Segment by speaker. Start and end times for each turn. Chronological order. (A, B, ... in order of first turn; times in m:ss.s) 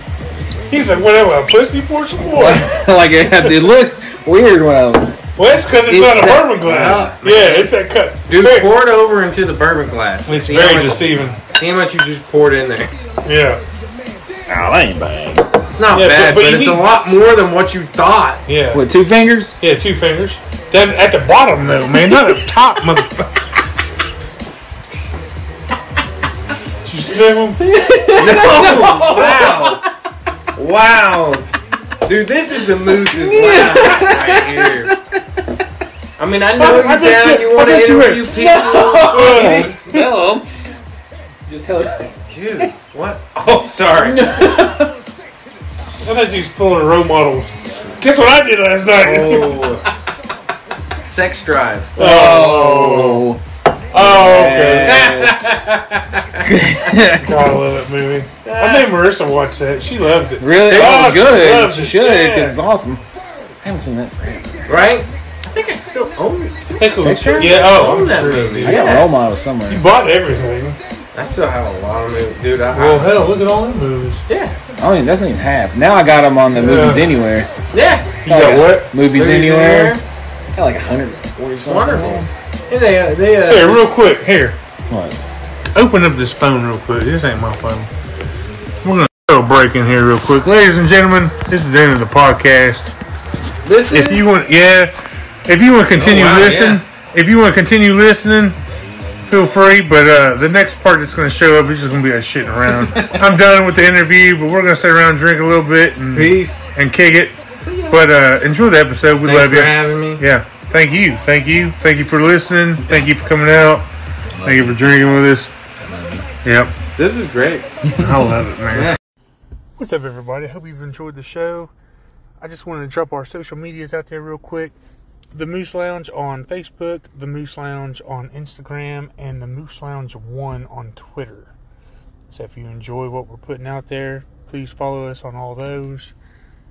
0:00.7-0:02.7 A
0:02.3-0:07.1 B
0:05.4-0:08.7 A
0:06.6-0:07.7 C
0:08.3-0:12.9 C
0:10.3-0:11.4 A
0:13.2-0:13.6 A
0:14.5-0:15.6 B
0:15.8-0:18.4 C
0:15.9-0:16.8 A
0:18.5-0:18.8 A
0:18.7-0:19.6 B
0:19.6-0:23.3 A
0:26.8-0:27.6 A
0:27.6-0:29.8 B
0:28.2-0:29.8 C
0:30.5-0:31.4 C
0:32.0-0:34.9 C
0:32.8-0:35.2 B
0:36.2-0:39.7 C
0:36.6-0:38.3 A
0:38.2-0:40.5 B
0:39.0-0:40.1 A
0:41.5-0:42.7 B
0:42.3-0:44.5 C
0:43.9-0:44.9 B
0:46.0-0:49.7 A
0:48.9-0:49.8 C
0:51.0-0:52.0 C
0:52.0-0:53.4 B
0:52.0-0:53.3 A
0:53.9-0:55.1 A
0:53.9-0:55.6 B
0:54.8-0:56.4 C
0:56.4-0:57.6 B
0:57.2-1:02.6 A
0:58.4-0:58.9 C
1:00.4-1:03.0 B
1:00.6-1:01.2 C
1:03.6-1:04.8 B
1:04.7-1:09.1 C
1:06.7-1:09.1 A
1:06.8-1:08.0 B
1:08.6-1:09.8 B
1:09.7-1:10.8 A
1:11.1-1:13.2 C
1:12.7-1:14.2 A
1:14.3-1:14.6 C
1:14.8-1:17.5 B
1:16.5-1:17.1 A
1:17.7-1:18.2 C
1:18.2-1:18.9 A
1:18.2-1:20.0 B
1:19.0-1:20.0 C
1:20.5-1:22.3 B
1:21.6-1:23.9 C
1:23.5-1:24.6 A
1:24.9-1:25.2 B
1:25.7-1:27.9 A
1:28.8-1:32.9 A
1:33.6-1:34.3 C
1:33.9-1:34.9 A
1:35.4-1:38.6 A
1:36.0-1:36.8 C
1:39.3-1:53.9 A
1:42.8-1:43.2 B
1:46.1-1:46.6 C
1:47.6-1:47.9 C
1:49.2-1:50.2 C
1:54.4-1:54.9 B
1:54.4-1:55.5 A
1:55.8-1:56.3 B
1:56.4-1:56.7 A
1:56.9-1:57.7 C
1:58.0-1:59.0 A
1:59.8-2:01.7 A
2:02.4-2:04.7 A
2:05.3-2:11.5 A
2:12.3-2:16.1 A